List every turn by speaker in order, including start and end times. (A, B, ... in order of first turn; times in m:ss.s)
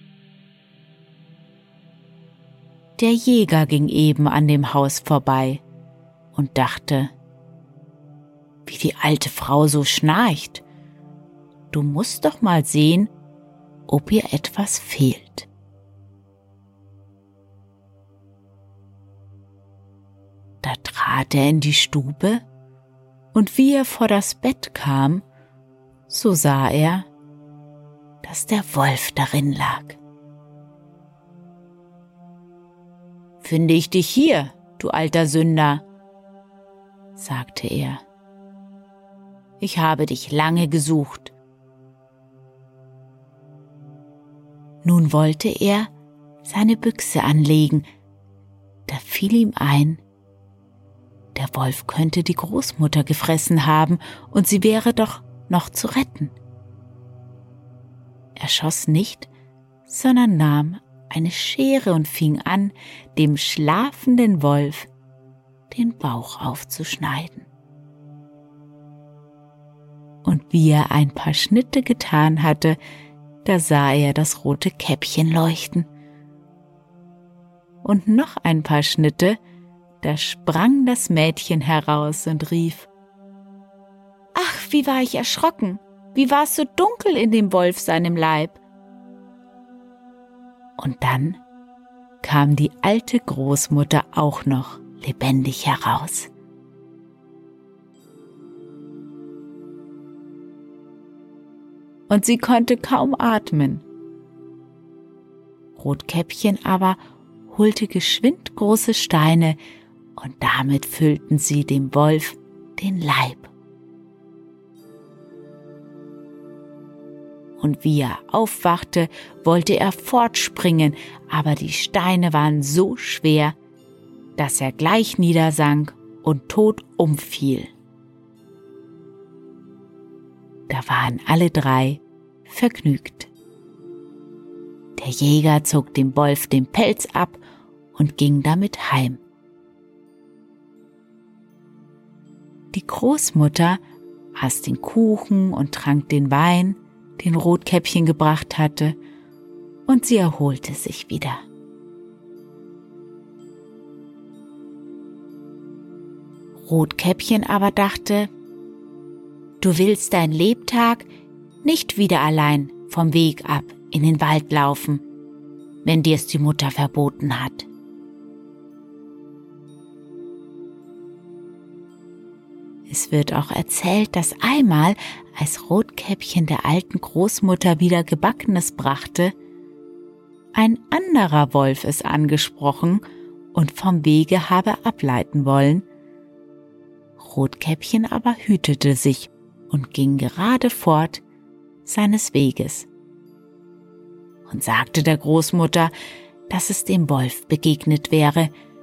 0:03.0-0:05.6 A
0:06.3-0:07.1 A
0:08.7-0:10.6 A
0:11.7-0:13.1 A
0:13.9-0:15.5 A
0:20.6-0:22.4 A
0:23.3-0:25.2 A
0:26.1-0:27.1 A
0:28.2-0:30.0 A
0:33.4-0:35.8 A
0:37.2-0:38.0 A
0:39.6-0:41.3 A
0:44.8-0:45.9 A
0:46.4-0:47.9 A
0:48.9-0:50.0 A
0:51.4-0:56.4 A
0:58.4-0:59.3 A
0:59.9-1:04.9 A
1:05.7-1:07.5 A
1:10.2-1:12.8 A
1:13.4-1:15.9 A
1:17.8-1:19.4 A
1:20.0-1:22.9 A
1:24.4-1:28.6 A
1:30.8-1:31.4 A
1:32.2-1:36.3 A
1:42.1-1:43.8 A
1:45.8-1:49.6 A
1:50.2-1:53.5 A
1:57.6-2:03.6 A
2:04.4-2:07.7 A
2:10.7-2:13.3 A
2:15.0-2:17.4 A
2:18.0-2:19.2 A
2:22.7-2:23.8 A
2:24.4-2:29.0 A
2:29.9-2:31.4 A
2:36.6-2:38.3 A
2:39.6-2:41.1 A
2:41.6-2:45.0 A
2:45.8-2:47.7 A
2:52.9-2:59.3 A
3:00.5-3:03.0 A
3:03.5-3:05.8 A
3:07.2-3:11.2 A
3:11.8-3:12.9 A
3:14.5-3:15.9 A
3:16.5-3:18.5 A